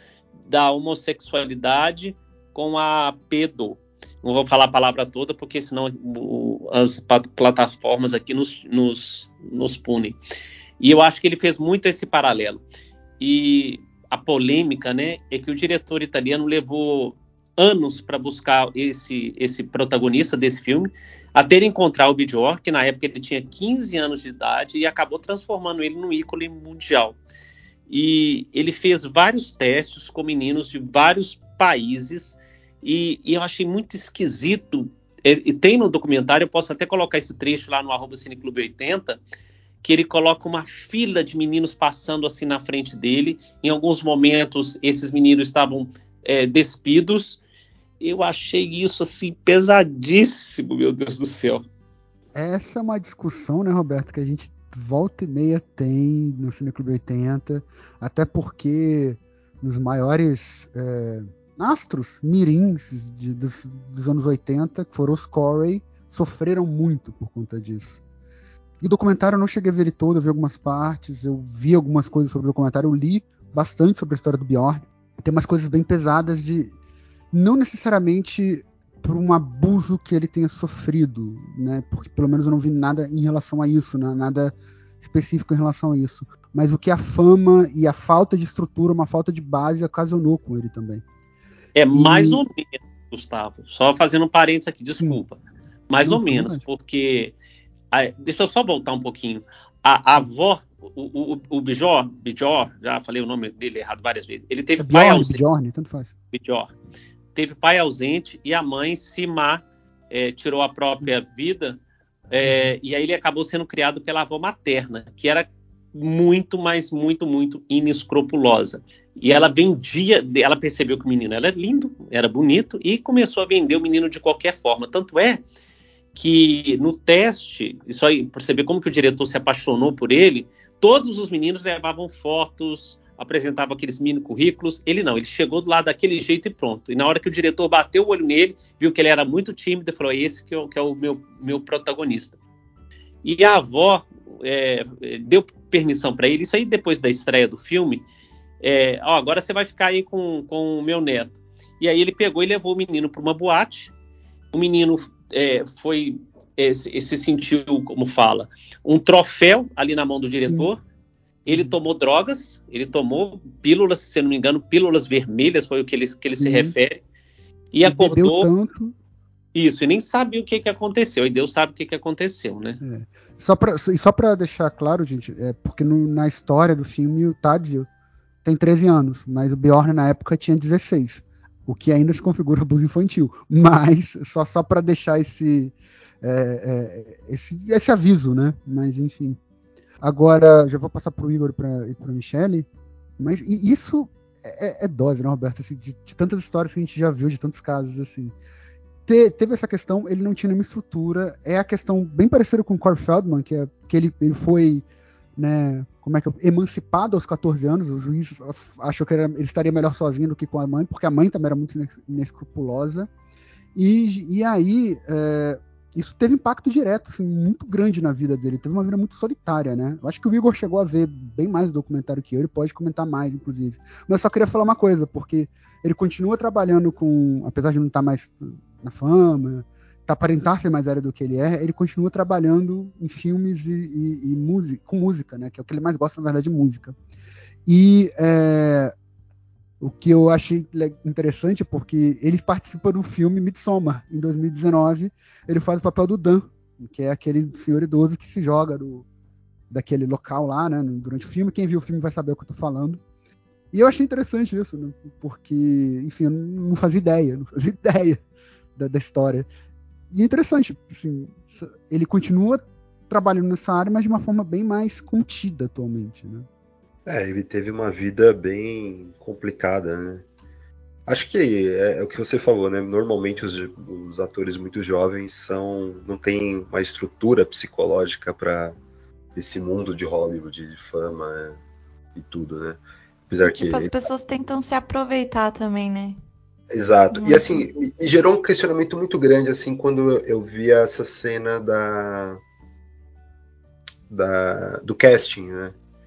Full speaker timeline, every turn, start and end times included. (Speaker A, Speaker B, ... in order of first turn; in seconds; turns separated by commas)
Speaker A: 0.5-10.2, Speaker A: 10.8-12.6, Speaker A: 13.2-27.2, Speaker A: 27.9-39.2, Speaker A: 39.8-47.4, Speaker A: 48.0-51.6, Speaker B: 52.3-68.0, Speaker B: 68.8-76.7, Speaker B: 77.3-91.0, Speaker A: 91.8-95.4, Speaker B: 91.9-92.4, Speaker A: 95.9-97.3, Speaker B: 96.0-96.6, Speaker A: 97.9-105.4, Speaker B: 104.8-106.1, Speaker A: 106.3-106.7, Speaker A: 107.3-111.8, Speaker A: 112.3-125.4, Speaker A: 126.1-142.4, Speaker A: 143.2-148.0, Speaker A: 148.6-153.9, Speaker A: 154.5-160.8, Speaker B: 160.4-160.7, Speaker A: 161.4-167.0, Speaker B: 166.4-166.7, Speaker A: 167.7-168.5, Speaker B: 167.8-168.9, Speaker A: 169.5-172.8, Speaker B: 172.8-177.9, Speaker B: 178.4-189.4, Speaker B: 190.0-192.7, Speaker B: 193.2-198.3, Speaker B: 199.1-204.8, Speaker B: 205.3-213.1, Speaker B: 213.7-236.9, Speaker B: 237.7-238.9, Speaker B: 239.8-249.1, Speaker B: 249.7-253.0, Speaker B: 253.7-258.2, Speaker B: 258.8-259.5, Speaker B: 260.1-266.5, Speaker C: 267.1-270.2, Speaker C: 271.1-278.8, Speaker C: 279.3-281.6, Speaker C: 282.1-283.9, Speaker D: 283.5-286.2, Speaker C: 286.7-292.4, Speaker D: 287.1-287.6, Speaker C: 294.1-295.7